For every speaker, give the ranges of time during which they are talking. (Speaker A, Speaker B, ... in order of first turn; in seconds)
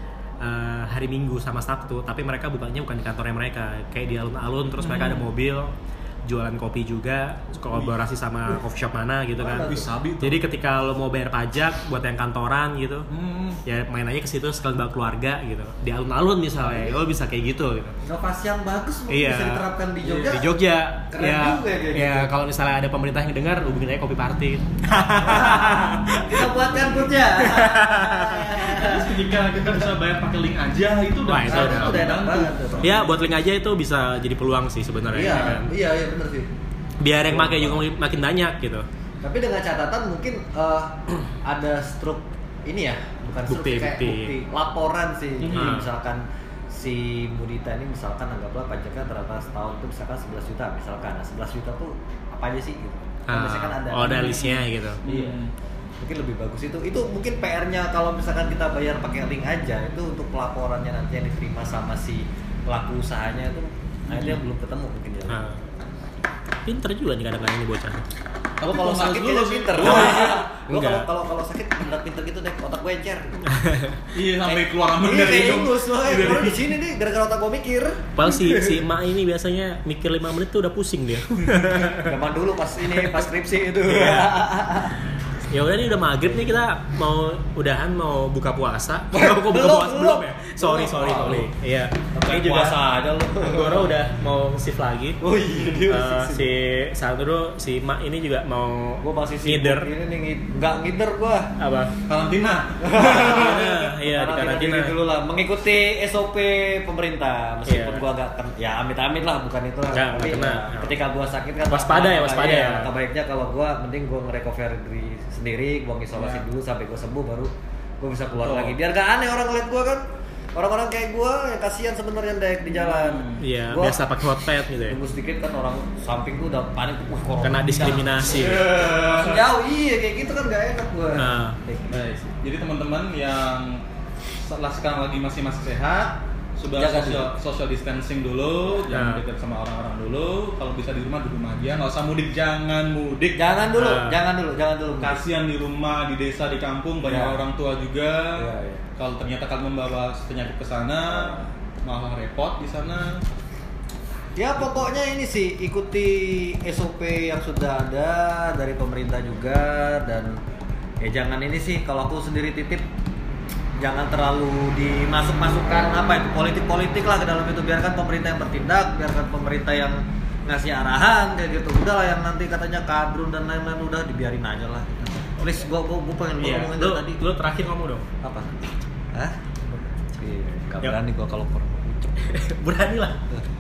Speaker A: 0.4-5.7, 6.2-13.1, 13.7-17.9, 19.1-26.5, 27.4-28.6, 31.3-32.0, 32.8-35.7, 37.0-38.9, 43.5-44.3, 45.5-45.9, 53.3-55.0, 65.3-65.6, 66.7-68.0, 69.8-71.1, 73.5-74.0, 78.2-82.1, 83.9-84.4, 85.5-92.8, 93.4-95.2, 95.9-99.9, 101.6-101.9, 103.0-105.0, 107.7-108.0, 109.9-111.0, 111.7-112.9, 123.4-125.0, 127.4-128.7, 131.2-131.6, 138.9-139.2, 143.8-144.2, 176.4-178.1, 182.2-183.2
Speaker B: 4.8-5.3, 9.6-10.4, 13.1-13.6, 28.7-33.2, 35.2-35.6, 45.4-45.8, 54.0-55.5, 64.1-64.4, 68.6-70.4, 74.1-76.7, 102.1-103.8, 116.2-116.4, 118.4-118.8, 122.7-123.4, 128.3-129.5, 131.9-133.8, 134.5-143.4, 145.0-153.2
Speaker C: 9.4-9.9, 16.6-17.0, 18.0-20.6, 21.1-22.3, 25.2-29.9, 31.5-33.0, 35.1-36.5, 37.2-37.9, 39.2-54.4, 55.0-55.4, 56.0-65.4, 68.6-73.5, 74.5-78.8, 81.8-85.0, 89.1-91.5, 92.2-94.0, 95.2-96.5, 99.0-101.5, 102.8-124.0, 124.9-132.0, 136.8-137.3, 143.4-145.2, 147.0-147.4, 148.4-148.9, 151.1-151.5, 154.4-160.4, 161.0-162.9, 163.8-177.2, 178.2-182.4